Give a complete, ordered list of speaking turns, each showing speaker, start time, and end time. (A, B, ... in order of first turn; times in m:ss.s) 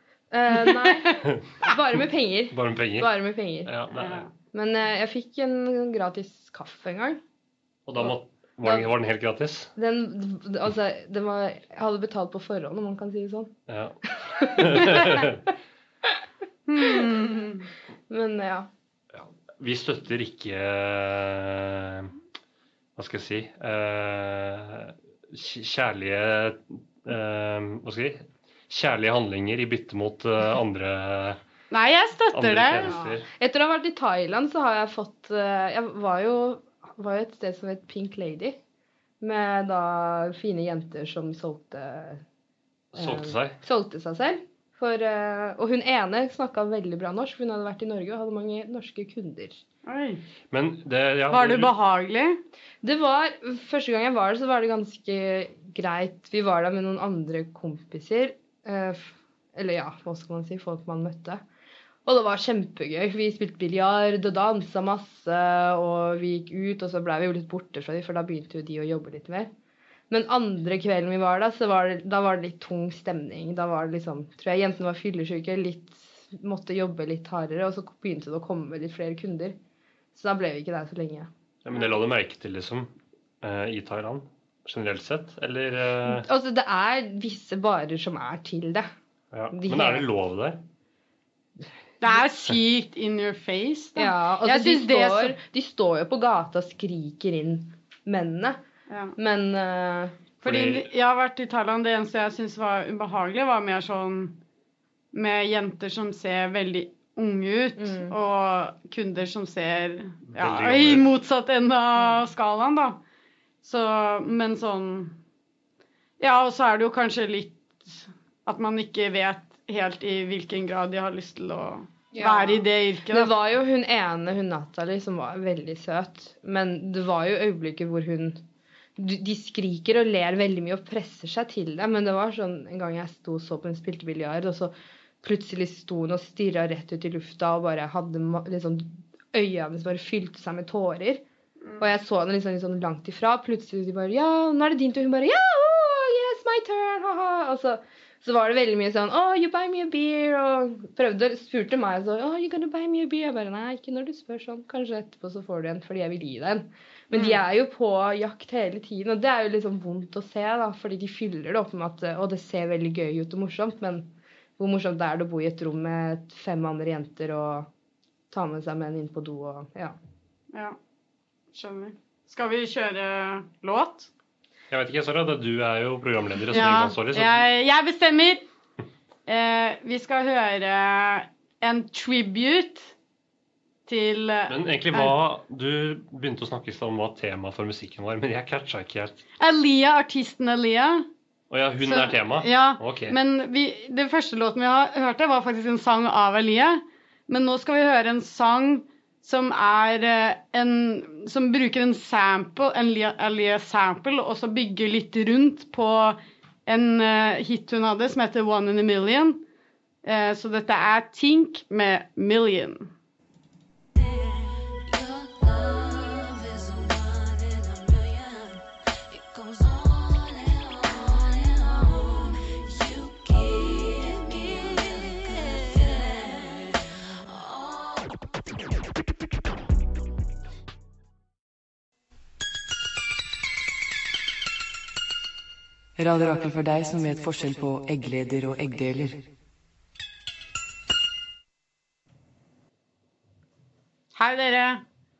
0:00.3-0:03.7 A
0:02.5-0:04.2 B
0:03.9-0:04.3 C
0:04.5-0:07.2 A
0:07.8-0:09.7 B
0:09.8-0:13.5 A
0:13.7-0:15.4 B
0:14.2-0:15.3 A
0:16.7-0:17.7 C
0:16.8-0:17.0 A
0:18.1-0:18.7 A
0:19.1-0:22.1 B
0:23.0-0:31.4 B
0:31.7-0:33.0 C
0:32.3-0:33.2 B
0:32.9-0:38.6 A
0:39.2-0:42.2 A
0:42.9-0:43.6 B
0:42.9-0:49.6 A
0:49.8-0:50.2 C
0:50.5-0:51.7 B
0:51.3-0:52.4 C
0:52.8-1:01.4 A
1:02.0-1:09.5 A
1:10.1-1:19.6 A
1:20.1-1:21.3 A
1:21.6-1:26.3 B
1:26.0-1:28.9 A
1:29.3-1:30.6 B
1:29.5-1:30.1 A
1:32.0-1:35.4 C
1:34.0-1:38.6 A
1:38.9-1:39.1 C
1:39.2-1:40.2 A
1:40.4-1:40.9 B
1:40.4-1:44.4 C
1:45.1-1:53.0 C
1:47.8-1:48.1 A
1:50.3-1:51.1 B
1:53.6-1:55.2 C
1:56.2-2:03.3 C
2:02.1-2:08.4 A
2:09.0-2:21.2 A
2:21.8-2:47.7 A
2:37.1-2:37.4 C
2:48.3-2:50.0 A
2:51.5-2:54.1 C
2:54.7-2:57.5 B
2:56.5-2:58.4 C
2:59.3-3:02.9 C
3:03.8-3:05.2 C
3:04.5-3:09.2 B
3:09.4-3:11.1 C
3:11.5-3:13.2 B
3:11.8-3:29.4 C
3:30.0-3:32.9 C
3:34.0-3:34.3 D
3:34.8-3:48.2 D
3:56.0-3:59.2 E
4:04.2-4:04.8 C